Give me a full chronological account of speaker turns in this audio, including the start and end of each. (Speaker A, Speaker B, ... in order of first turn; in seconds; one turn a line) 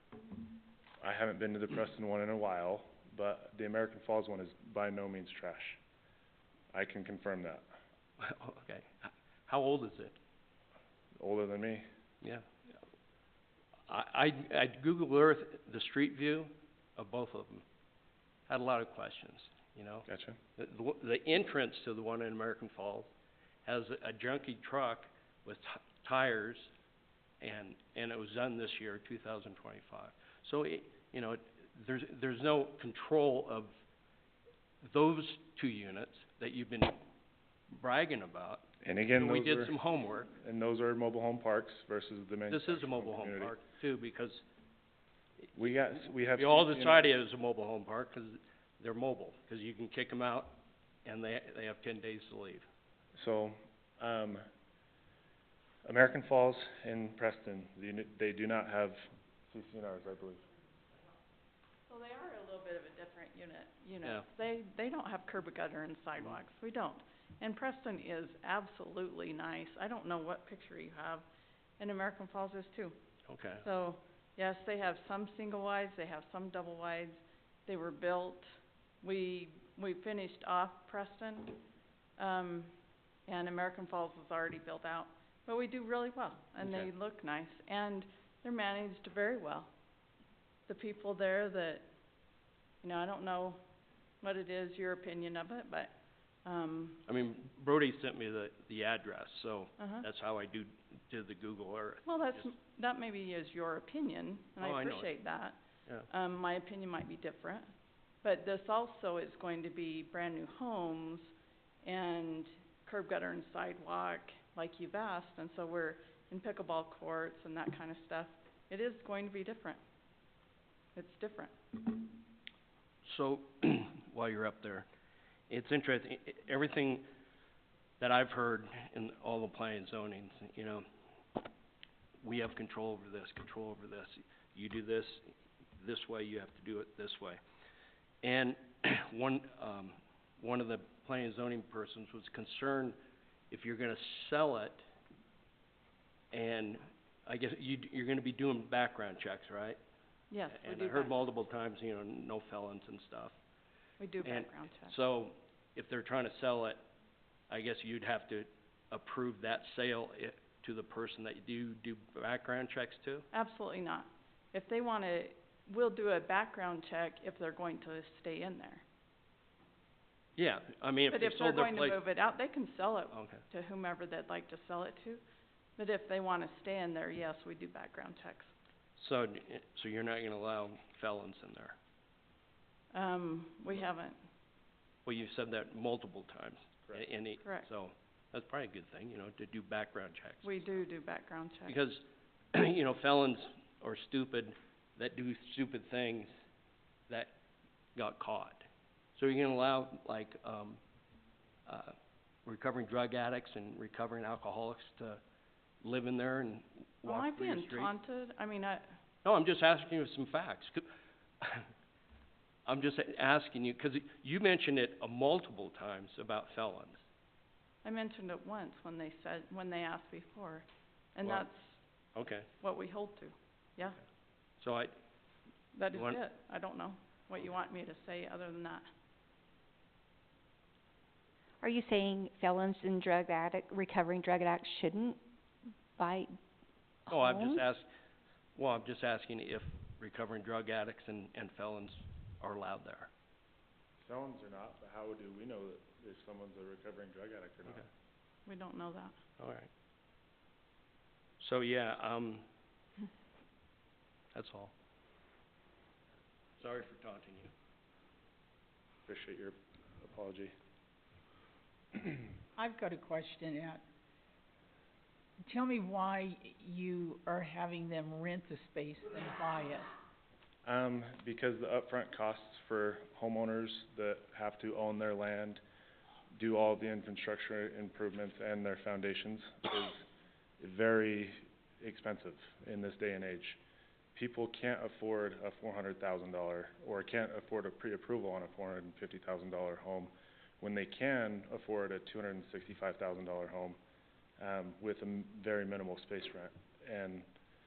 Speaker A: 1.0-5.8
Speaker A: 6.7-7.6
Speaker B: 8.2-10.2
Speaker A: 11.2-11.8
Speaker B: 12.2-12.7
Speaker B: 13.9-17.6
Speaker B: 18.5-23.1
Speaker A: 20.1-20.4
Speaker B: 23.6-26.7
Speaker B: 27.4-33.7
Speaker B: 34.8-37.0
Speaker B: 37.7-40.3
Speaker A: 38.8-39.8
Speaker A: 40.3-43.5
Speaker B: 42.5-44.4
Speaker A: 45.5-47.1
Speaker B: 46.3-52.6
Speaker A: 53.1-54.4
Speaker A: 55.8-60.4
Speaker C: 61.9-71.2
Speaker C: 71.8-72.9
Speaker B: 73.3-73.7
Speaker C: 73.6-81.6
Speaker C: 82.2-82.8
Speaker C: 83.3-89.7
Speaker B: 86.6-86.9
Speaker C: 90.7-91.8
Speaker C: 92.8-93.6
Speaker C: 94.2-97.0
Speaker B: 97.0-102.5
Speaker C: 99.8-100.0
Speaker C: 102.0-105.6
Speaker B: 104.6-105.1
Speaker C: 106.1-107.7
Speaker C: 108.2-111.3
Speaker C: 111.8-119.8
Speaker C: 120.9-121.5
Speaker B: 123.0-124.8
Speaker B: 125.5-127.0
Speaker B: 128.0-130.8
Speaker B: 132.2-137.4
Speaker B: 138.2-142.9
Speaker B: 143.5-144.8
Speaker B: 146.3-149.8
Speaker C: 150.3-151.2
Speaker B: 150.5-153.3
Speaker C: 154.0-154.9
Speaker B: 154.2-156.8
Speaker B: 157.5-163.2
Speaker C: 163.3-168.8
Speaker B: 170.4-172.0
Speaker C: 171.1-175.2
Speaker B: 173.1-173.4
Speaker C: 175.8-178.5
Speaker B: 179.0-181.7
Speaker C: 182.9-184.2
Speaker B: 185.0-190.7
Speaker C: 187.4-187.7
Speaker C: 190.4-191.7
Speaker B: 191.7-192.0
Speaker B: 192.5-196.3
Speaker B: 197.9-198.6
Speaker B: 199.2-200.8
Speaker B: 201.7-201.9
Speaker B: 202.4-205.2
Speaker B: 205.8-207.9
Speaker C: 207.0-208.9
Speaker B: 209.2-210.8
Speaker B: 211.4-211.7
Speaker B: 212.7-217.0
Speaker C: 217.8-221.7
Speaker B: 222.1-222.5
Speaker C: 222.6-224.0
Speaker B: 224.6-224.9
Speaker C: 225.7-228.8
Speaker B: 225.9-226.2
Speaker D: 231.6-235.2
Speaker D: 236.0-236.3
Speaker D: 237.1-237.6
Speaker B: 237.1-237.9
Speaker B: 238.6-243.1
Speaker A: 244.0-247.9
Speaker C: 248.4-249.2
Speaker B: 249.4-249.7
Speaker B: 251.4-252.4
Speaker B: 254.3-254.7
Speaker B: 256.6-257.5
Speaker A: 259.1-260.5
Speaker E: 262.6-263.8
Speaker E: 265.4-269.9
Speaker A: 270.6-275.6
Speaker A: 276.3-280.1
Speaker A: 280.6-283.6
Speaker A: 284.1-293.8
Speaker A: 294.4-297.3